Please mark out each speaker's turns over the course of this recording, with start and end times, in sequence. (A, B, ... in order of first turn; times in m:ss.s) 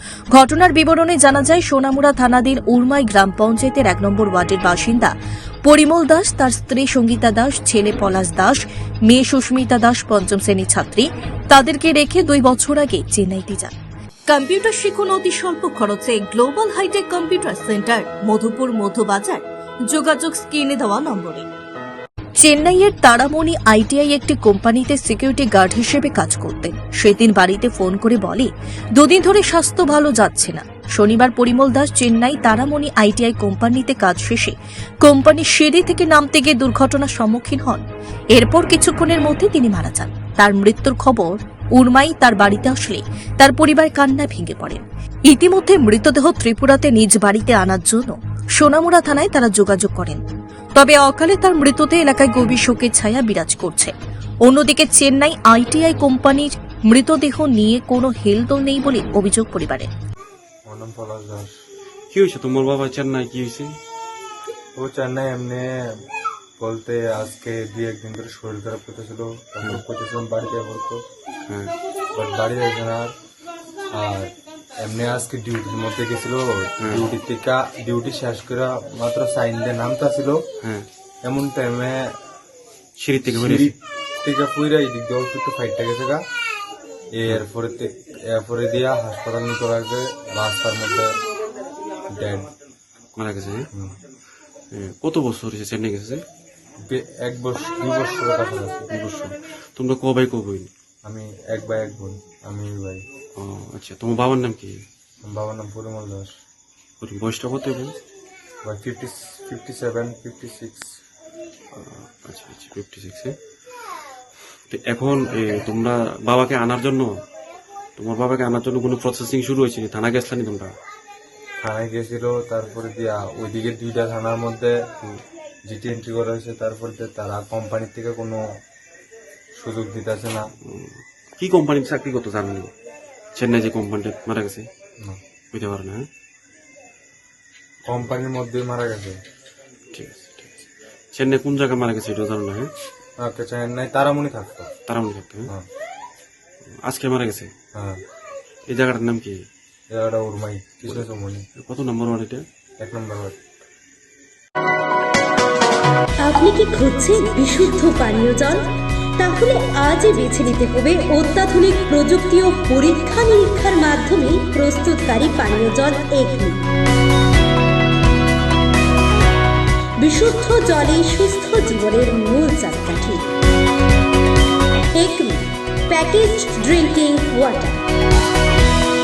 0:00.3-0:05.1 A
0:05.6-0:13.7 A
0:14.3-0:21.5 A
0:22.4-0:37.8 A
0:38.3-0:50.2 A
0:50.8-0:53.9 A
0:54.4-0:59.9 A
1:00.7-1:01.5 B
1:02.1-1:03.7 C
1:04.8-1:05.9 B
1:06.6-1:11.0 B
1:11.5-1:11.8 C
1:12.2-1:13.1 B
1:14.0-1:14.3 B
1:14.8-1:20.4 B
1:21.2-1:22.1 B
1:23.0-1:23.7 C
1:23.3-1:26.2 B
1:27.2-1:31.1 B
1:32.1-1:32.5 B
1:33.2-1:33.7 C
1:34.7-1:36.2 C
1:36.9-1:38.9 B
1:38.9-1:40.7 C
1:41.0-1:43.0 B
1:43.4-1:44.8 C
1:45.2-1:46.3 B
1:47.0-1:48.0 C
1:48.6-1:50.9 B
1:51.7-1:53.4 C
1:54.7-1:57.1 C
1:58.0-2:00.7 C
2:01.6-2:04.9 B
2:05.7-2:08.4 B
2:09.6-2:10.5 B
2:10.6-2:12.7 C
2:13.4-2:14.7 C
2:15.5-2:16.1 C
2:17.9-2:19.2 B
2:19.9-2:22.7 C
2:23.2-2:24.7 B
2:24.9-2:25.5 C
2:26.9-2:27.5 C
2:28.7-2:29.4 C
2:29.9-2:31.4 B
2:31.6-2:32.4 C
2:32.8-2:33.4 B
2:36.2-2:38.7 D
2:39.2-2:46.6 D
2:50.0-2:53.3 D
2:54.9-2:57.8 D